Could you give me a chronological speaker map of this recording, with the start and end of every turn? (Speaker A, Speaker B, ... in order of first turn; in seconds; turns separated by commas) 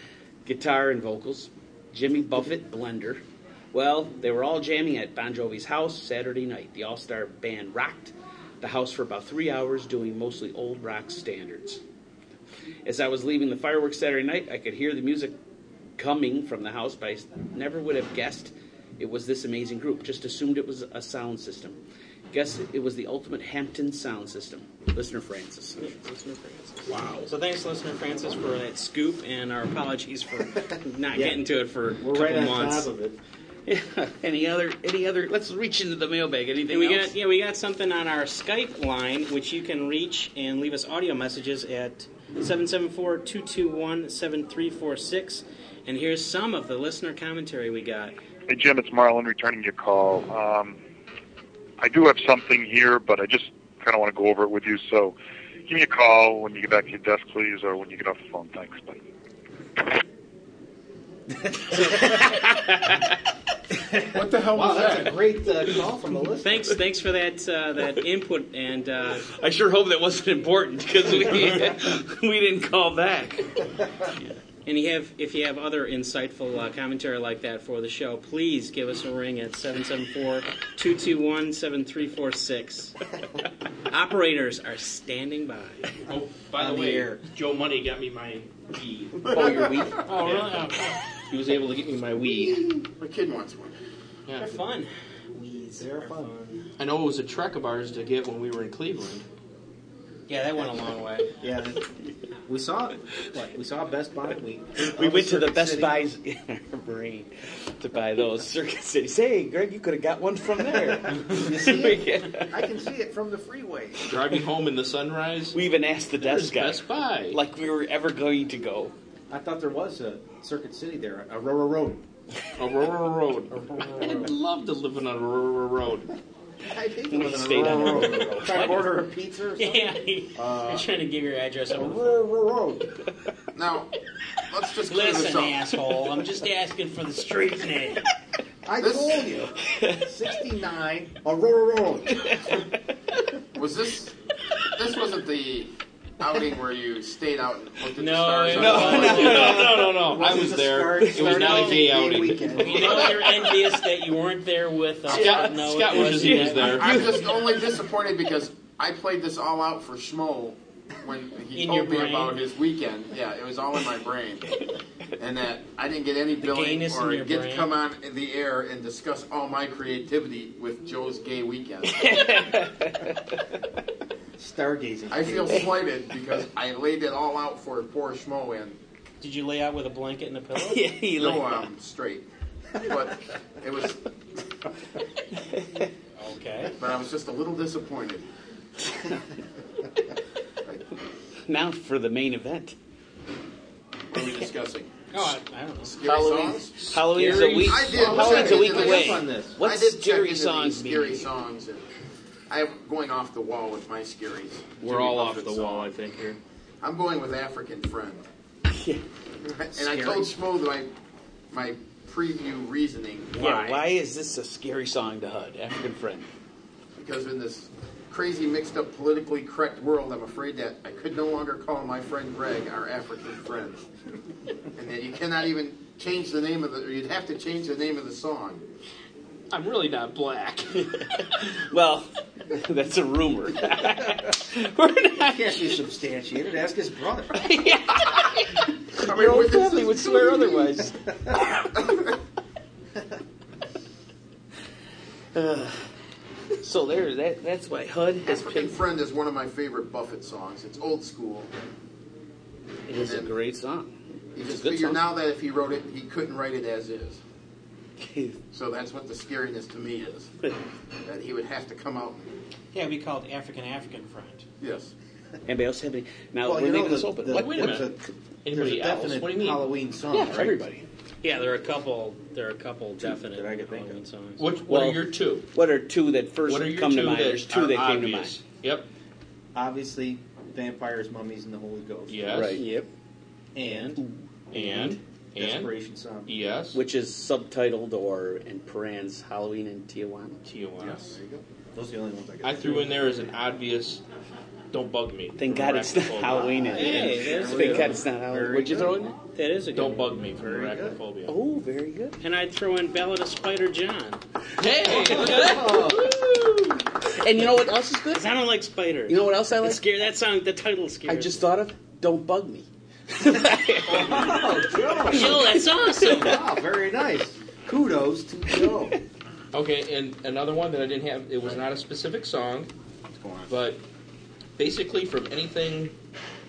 Speaker A: 0.4-11.8, Speaker A: 12.8-15.3, Speaker A: 16.0-21.8, Speaker A: 22.3-26.0, Speaker B: 25.8-32.9, Speaker C: 26.9-27.2, Speaker D: 31.1-31.4, Speaker D: 32.0-33.2, Speaker A: 33.6-37.1, Speaker B: 36.7-48.1, Speaker E: 48.5-50.8, Speaker E: 51.8-59.0, Speaker A: 62.0-62.9, Speaker D: 63.9-66.7, Speaker F: 64.1-65.4, Speaker B: 66.4-69.3, Speaker A: 69.3-73.6, Speaker B: 74.6-83.0, Speaker B: 83.9-85.9, Speaker C: 86.1-89.4, Speaker D: 86.5-87.2, Speaker A: 89.3-90.0, Speaker C: 90.0-90.7, Speaker B: 90.1-90.9, Speaker C: 91.3-92.7, Speaker F: 93.0-93.7, Speaker C: 94.3-94.5, Speaker B: 94.4-96.6, Speaker D: 95.8-96.3, Speaker C: 96.8-99.2, Speaker B: 100.3-101.3, Speaker D: 101.4-101.8, Speaker D: 102.5-106.1, Speaker A: 104.9-112.6, Speaker D: 110.7-114.1, Speaker C: 114.1-115.6, Speaker A: 115.5-118.9, Speaker C: 116.2-117.4, Speaker D: 119.3-122.0, Speaker C: 122.6-126.1, Speaker B: 123.5-124.3, Speaker D: 126.7-130.8, Speaker A: 127.1-128.9, Speaker B: 129.6-132.2, Speaker D: 131.7-132.9, Speaker F: 133.5-133.9, Speaker F: 134.5-135.6, Speaker B: 134.9-138.0, Speaker D: 138.7-142.6, Speaker F: 138.8-139.2, Speaker A: 139.7-140.1, Speaker F: 143.5-144.1, Speaker F: 144.7-149.2, Speaker B: 147.9-149.6, Speaker A: 148.5-150.2, Speaker C: 148.6-153.1, Speaker D: 149.0-153.2, Speaker A: 150.9-151.5, Speaker B: 151.3-151.9, Speaker B: 152.5-156.8, Speaker C: 155.1-157.0, Speaker A: 155.2-157.7, Speaker F: 156.7-164.4, Speaker B: 161.5-162.4, Speaker F: 165.2-172.2, Speaker B: 166.4-167.7, Speaker A: 171.9-173.2, Speaker D: 174.4-175.8, Speaker F: 175.1-178.8, Speaker B: 179.2-180.8, Speaker A: 180.6-181.7, Speaker F: 181.1-182.2, Speaker F: 182.8-184.0, Speaker A: 185.4-185.9, Speaker B: 186.2-186.7, Speaker F: 186.8-188.2, Speaker A: 191.5-192.7, Speaker F: 194.1-194.9, Speaker B: 195.1-195.9, Speaker F: 195.8-196.8, Speaker A: 196.0-201.3, Speaker C: 196.8-198.0, Speaker F: 197.5-201.8, Speaker D: 197.9-199.6, Speaker F: 202.5-205.9, Speaker C: 204.8-206.4, Speaker F: 206.8-208.3, Speaker A: 208.7-209.0, Speaker F: 209.5-210.9, Speaker D: 209.8-210.3, Speaker F: 211.5-213.5, Speaker B: 213.4-213.8, Speaker A: 213.4-216.3, Speaker F: 217.0-223.8, Speaker F: 224.8-228.6, Speaker C: 229.5-230.9, Speaker A: 231.0-235.8, Speaker D: 235.2-237.5, Speaker A: 237.3-241.7, Speaker F: 238.9-240.6, Speaker F: 241.7-242.0, Speaker A: 245.3-245.9, Speaker A: 246.6-248.8, Speaker F: 248.2-251.5, Speaker A: 252.9-255.0, Speaker F: 252.9-253.3, Speaker F: 254.3-257.2, Speaker A: 258.0-258.4, Speaker F: 258.5-260.3, Speaker F: 261.0-262.3, Speaker B: 262.7-264.4, Speaker F: 264.6-264.9, Speaker A: 265.4-267.9, Speaker D: 266.4-270.6, Speaker C: 267.3-267.9, Speaker C: 268.4-269.7, Speaker A: 270.1-270.9, Speaker B: 271.2-274.4, Speaker D: 273.0-274.0, Speaker C: 274.4-275.5, Speaker A: 274.7-278.4, Speaker C: 276.4-278.9, Speaker D: 279.5-282.5, Speaker C: 282.1-282.6, Speaker A: 282.3-282.9, Speaker D: 283.5-286.3, Speaker B: 283.6-284.0, Speaker A: 284.0-285.0, Speaker C: 284.5-285.7, Speaker C: 286.2-286.8, Speaker A: 286.7-290.4, Speaker C: 290.4-291.0, Speaker F: 290.8-291.2, Speaker D: 290.8-293.3, Speaker C: 292.4-294.0, Speaker C: 294.7-297.9, Speaker A: 295.4-299.2, Speaker D: 296.1-299.1, Speaker B: 296.7-297.9, Speaker B: 299.3-300.2, Speaker C: 299.7-301.3, Speaker D: 300.4-301.0, Speaker A: 301.2-302.2, Speaker B: 302.2-304.2, Speaker C: 304.6-306.2, Speaker D: 304.9-306.2, Speaker A: 305.0-305.4, Speaker A: 307.1-308.3, Speaker B: 308.1-311.4, Speaker A: 309.1-309.8, Speaker A: 311.1-316.4, Speaker D: 313.9-315.5, Speaker B: 315.1-316.4, Speaker D: 316.1-318.9, Speaker C: 319.5-322.7, Speaker F: 323.1-323.5, Speaker C: 323.5-323.8, Speaker C: 324.6-325.9